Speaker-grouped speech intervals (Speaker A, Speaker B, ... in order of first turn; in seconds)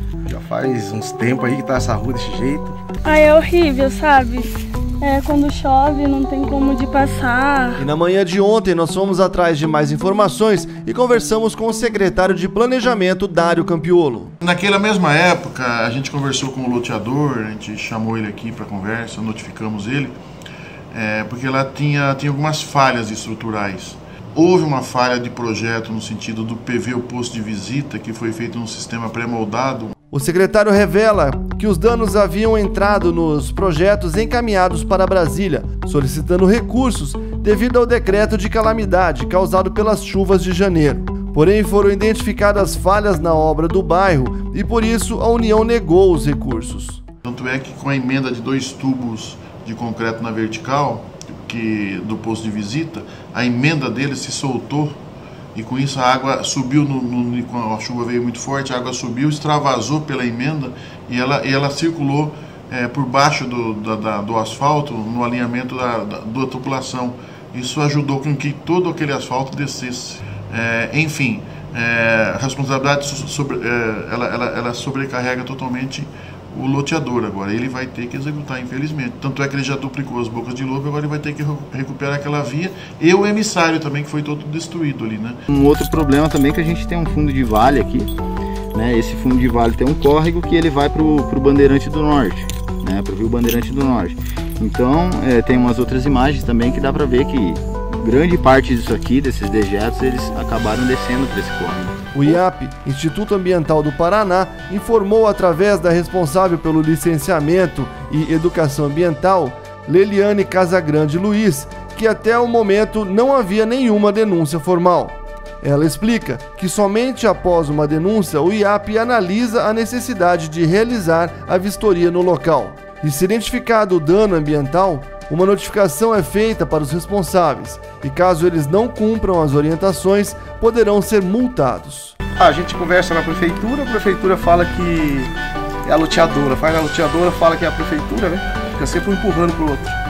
Speaker A: 0.3-2.8, 132.4-135.3, 135.8-140.0
Speaker B: 3.0-7.8
Speaker C: 7.8-14.3, 30.1-47.0, 102.1-132.2
Speaker D: 14.4-20.2, 20.9-29.9, 47.2-55.0, 55.5-85.4
Speaker E: 85.5-88.1, 88.7-102.0